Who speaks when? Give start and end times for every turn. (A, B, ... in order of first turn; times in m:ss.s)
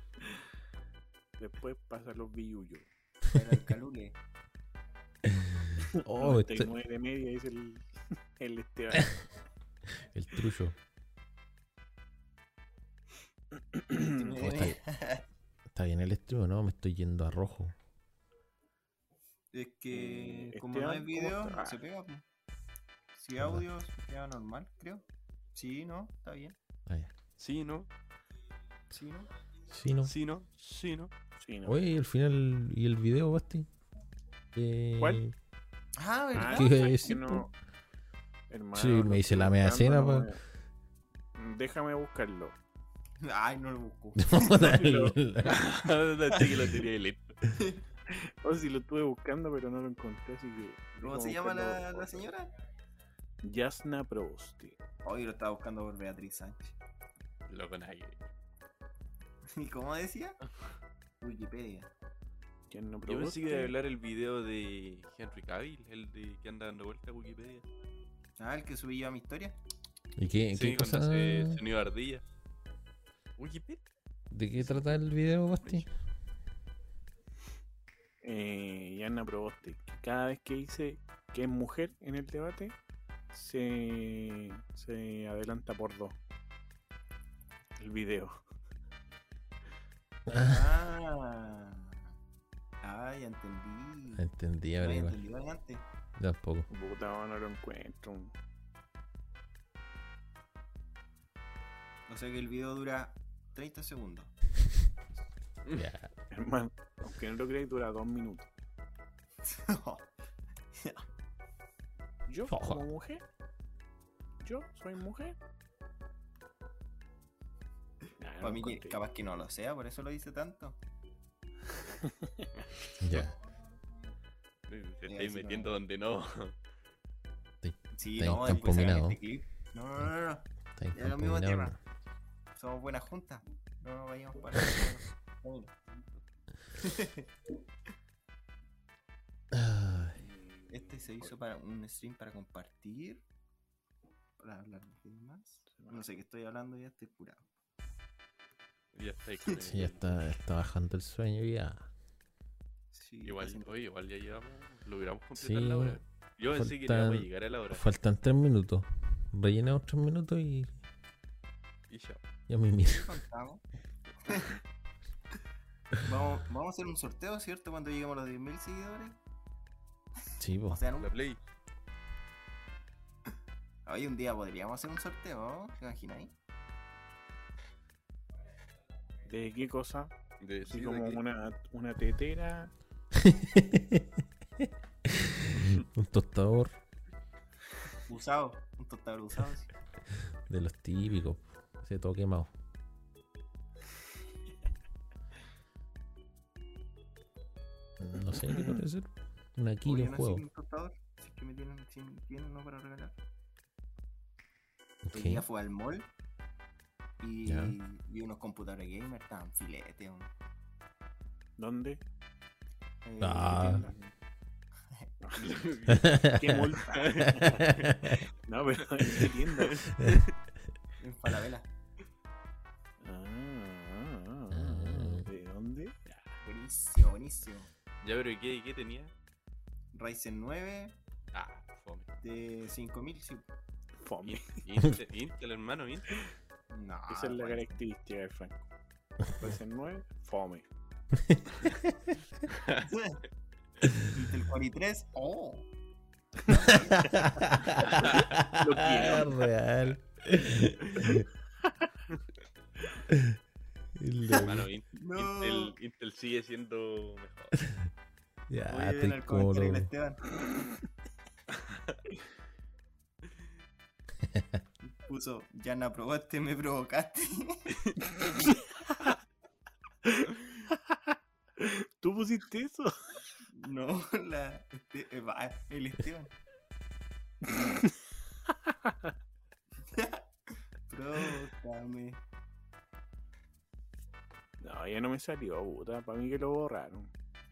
0:01.4-0:02.9 A
0:03.3-0:04.2 B
0:05.2-0:06.8 C
0:06.0-0:09.1 A
0:09.9-0:10.8 C
0:13.7-0:14.3 A
0:14.1-0:15.2 B
0:14.3-0:14.8 C
0:15.7-0:17.8 C
0:19.5-0:22.2 B
0:19.9-0:21.8 A
0:23.1-0:26.6 B
0:23.4-0:23.7 C
0:26.9-0:27.1 C
0:27.4-0:27.9 D
0:28.9-0:29.3 B
0:29.7-0:30.1 C
0:30.0-0:31.1 D
0:31.4-0:31.8 A
0:31.6-0:33.7 C
0:34.5-0:35.4 C
0:36.0-0:37.1 B
0:36.3-0:37.5 A
0:36.4-0:37.5 C
0:38.5-0:40.4 A
0:38.7-0:40.3 C
0:41.4-0:42.6 A
0:43.2-0:44.9 B
0:44.2-0:45.7 C
0:44.6-0:45.1 A
0:45.4-0:47.4 D
0:47.5-0:47.8 B
0:48.1-0:52.3 A
0:51.0-0:52.5 B
0:53.4-0:54.8 A
0:55.0-0:56.7 B
0:57.5-0:58.2 D
0:59.5-1:00.4 B
1:01.2-1:01.9 B
1:02.7-1:03.7 A
1:03.0-1:07.7 D
1:08.4-1:09.6 B
1:10.2-1:11.6 C
1:10.5-1:12.2 D
1:13.4-1:13.8 D
1:14.3-1:15.9 C
1:18.2-1:22.8 A
1:23.3-1:26.2 A
1:27.8-1:28.4 A
1:30.3-1:30.7 C
1:30.3-1:32.0 B
1:32.8-1:34.3 B
1:34.1-1:35.2 C
1:34.8-1:35.9 B
1:36.2-1:36.7 C
1:36.7-1:38.3 A
1:42.1-1:44.3 B
1:45.8-1:46.1 C
1:46.3-1:48.5 A
1:49.4-1:50.1 B
1:50.7-1:51.0 B
1:52.3-1:53.2 A
1:52.5-1:52.8 C
1:54.4-1:55.4 A
1:58.2-1:59.0 A
1:58.4-2:00.8 B
2:02.0-2:02.5 A
2:03.0-2:03.3 C
2:04.7-2:06.6 D
2:05.1-2:05.7 B
2:07.6-2:09.2 C
2:08.0-2:11.8 B
2:10.8-2:11.8 C
2:12.6-2:15.7 B
2:16.8-2:17.3 B
2:19.5-2:20.2 C
2:20.2-2:21.2 A
2:20.7-2:23.2 B
2:24.4-2:27.4 B
2:25.7-2:26.0 A
2:28.9-2:30.2 D
2:29.6-2:31.9 C
2:32.9-2:33.7 B
2:33.2-2:37.8 D
2:35.4-2:40.8 C
2:41.9-2:42.2 D
2:42.5-2:43.2 C
2:42.8-2:43.6 B
2:44.2-2:44.6 B
2:46.0-2:49.2 B
2:50.4-2:50.8 C
2:50.7-2:51.1 B
2:51.0-2:51.4 D
2:53.9-2:56.3 B
2:59.3-3:00.1 A
3:00.4-3:01.2 D
3:00.7-3:02.7 A
3:03.1-3:06.8 C
3:08.0-3:09.7 B
3:10.4-3:12.5 C
3:18.0-3:20.4 C
3:19.8-3:23.2 B
3:25.0-3:25.4 C
3:25.1-3:26.1 B
3:27.2-3:30.3 B
3:27.5-3:27.8 C
3:31.6-3:32.0 A
3:33.0-3:34.0 B
3:33.2-3:33.9 C
3:33.7-3:33.9 A
3:35.2-3:35.5 A
3:35.4-3:36.2 D
3:35.9-3:36.8 C
3:36.1-3:37.7 A
3:36.9-3:37.9 D
3:37.4-3:38.2 C
3:38.4-3:39.9 A
3:39.7-3:40.2 D
3:40.0-3:40.3 C
3:41.0-3:41.7 B
3:43.0-3:46.4 A
3:44.5-3:45.3 C
3:46.4-3:47.7 B
3:48.0-3:49.1 D
3:49.9-3:51.0 B
3:51.3-3:52.1 D
3:52.2-3:53.4 B
3:54.0-3:54.6 A
3:54.2-3:56.2 D
3:56.7-3:57.8 B
3:57.1-3:58.7 A
3:59.4-4:00.7 A
4:01.2-4:02.2 C
4:02.5-4:02.8 D
4:02.8-4:03.2 B
4:04.0-4:05.7 B
4:06.4-4:07.4 B
4:06.6-4:11.3 C
4:07.9-4:08.2 D
4:08.5-4:09.5 A
4:13.1-4:13.4 C
4:14.0-4:14.7 C
4:14.3-4:17.6 D
4:15.0-4:15.7 B
4:18.5-4:19.9 C
4:18.7-4:20.3 B
4:21.7-4:22.0 D
4:24.3-4:24.6 C
4:24.8-4:28.2 B
4:30.0-4:33.0 A
4:33.5-4:36.3 B
4:39.9-4:40.2 B
4:40.9-4:42.2 B
4:44.6-4:47.1 A